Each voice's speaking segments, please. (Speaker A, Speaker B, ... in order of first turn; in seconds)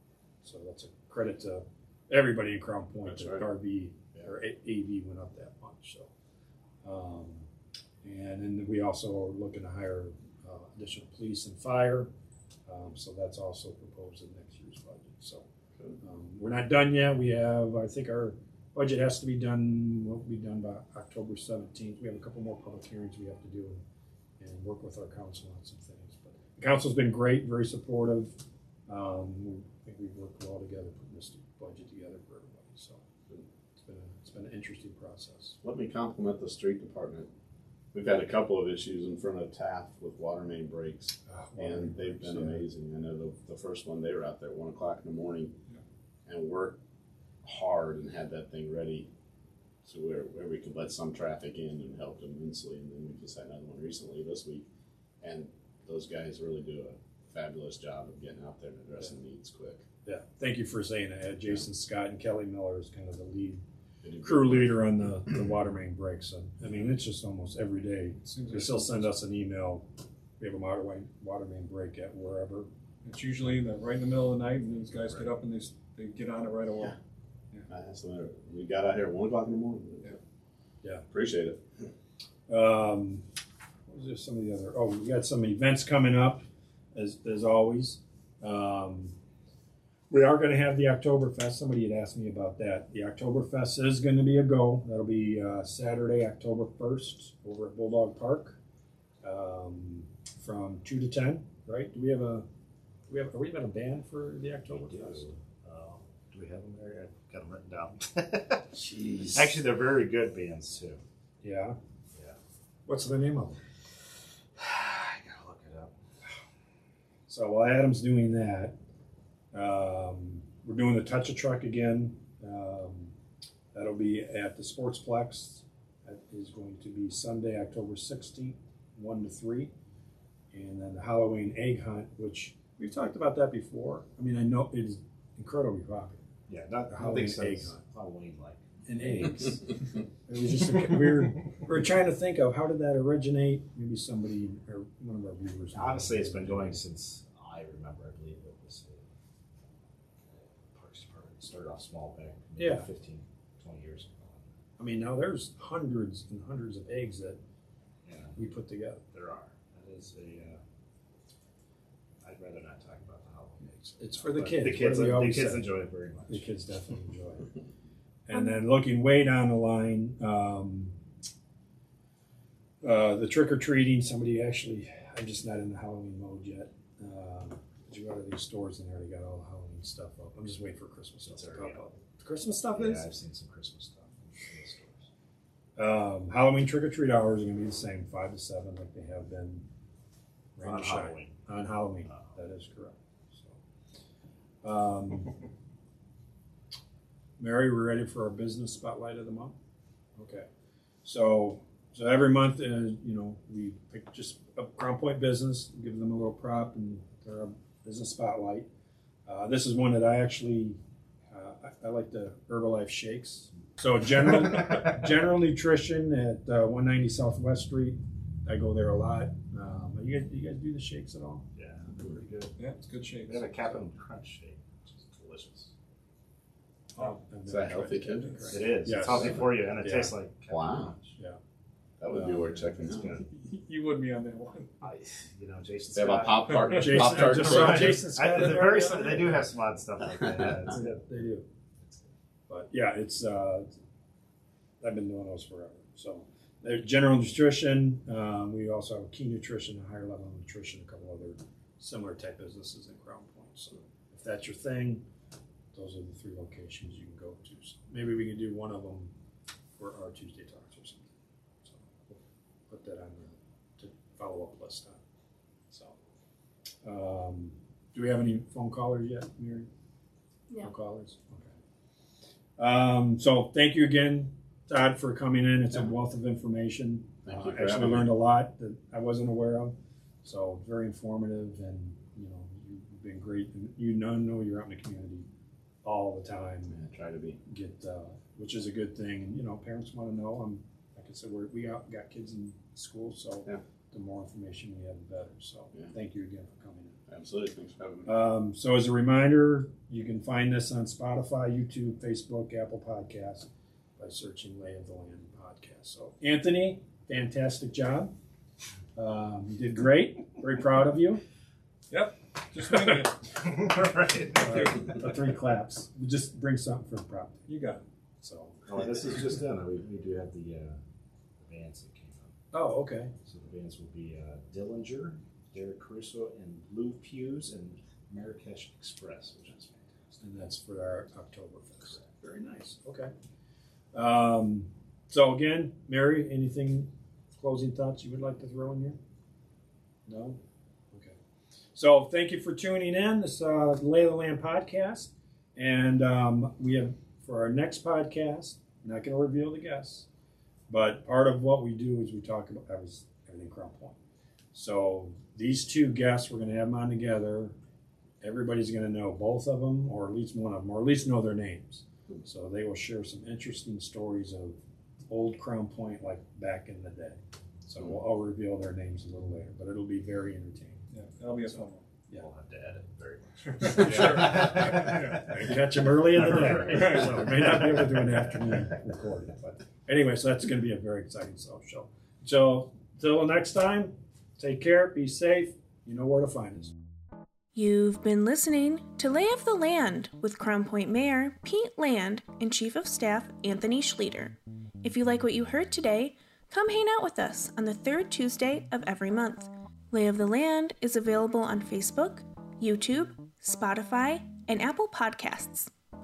Speaker A: 0.4-6.1, 6.8-7.5, 8.0-12.1, 12.7-15.4, 16.0-23.8, 24.4-28.4, 28.9-33.0, 33.8-35.6, 41.2-42.6, 60.0-63.6, 64.2-69.9, 70.4-72.7, 82.5-83.2, 83.8-89.1, 90.1-98.6, 99.2-102.5, 103.1-105.3, 108.7-109.5, 111.4-111.8, 112.9-113.6, 117.3-118.8, 119.5-123.1, 123.7-129.7, 130.5-136.3, 136.9-137.8, 138.8-146.8, 152.6-152.9, 154.8-157.4, 158.3-159.0, 163.6-165.7, 166.3-167.5, 168.3-171.0, 172.8-183.1, 185.8-189.7, 190.6-193.6, 194.6-195.4, 197.4-199.6, 200.2-200.5, 201.0-208.7, 209.2-210.8, 211.3-221.5, 226.9-230.1, 232.1-232.7, 236.7-239.5, 240.7-241.5, 242.5-243.7, 244.8-255.0, 255.7-259.1, 259.8-261.1, 261.6-265.0, 265.7-265.9, 266.8-269.7, 270.6-271.5, 272.6-285.3, 285.8-286.8, 287.4-297.0, 298.1-308.1, 308.9-311.2, 314.4-317.5, 318.2-318.6, 322.5-323.1, 330.2-333.1, 333.9-339.0, 340.1-341.1, 341.7-350.1, 350.7-354.0, 354.5-357.6, 358.2-370.9, 371.5-372.2, 373.7-386.7
Speaker B: 3.0-3.5, 35.6-37.3, 37.9-45.5, 46.2-46.8, 47.4-49.1, 49.8-54.6, 55.2-59.8, 64.0-64.9, 77.7-80.2, 81.1-81.6, 227.4-228.4, 229.1-229.4, 230.5-230.9, 232.0-233.2, 235.9-238.1, 277.2-278.1, 286.7-287.4, 297.1-298.1
Speaker C: 68.2-69.0, 73.0-77.0, 222.6-223.8, 233.2-234.8, 311.9-315.1, 317.5-317.8, 370.9-371.8, 373.6-375.4, 376.6-377.5
Speaker D: 104.7-108.7, 109.3-111.0, 114.5-116.0, 136.5-139.6, 145.7-149.1, 150.2-154.5, 158.0-158.4, 159.1-160.6, 162.2-166.4, 181.3-181.8, 182.7-185.1, 190.6-191.4, 221.5-222.5, 223.3-225.7, 228.5-231.1, 232.7-233.3, 234.8-241.1, 241.8-242.1, 313.3-314.7, 318.6-320.8, 321.4-322.3, 323.2-330.2, 372.1-378.1
Speaker E: 387.5-405.7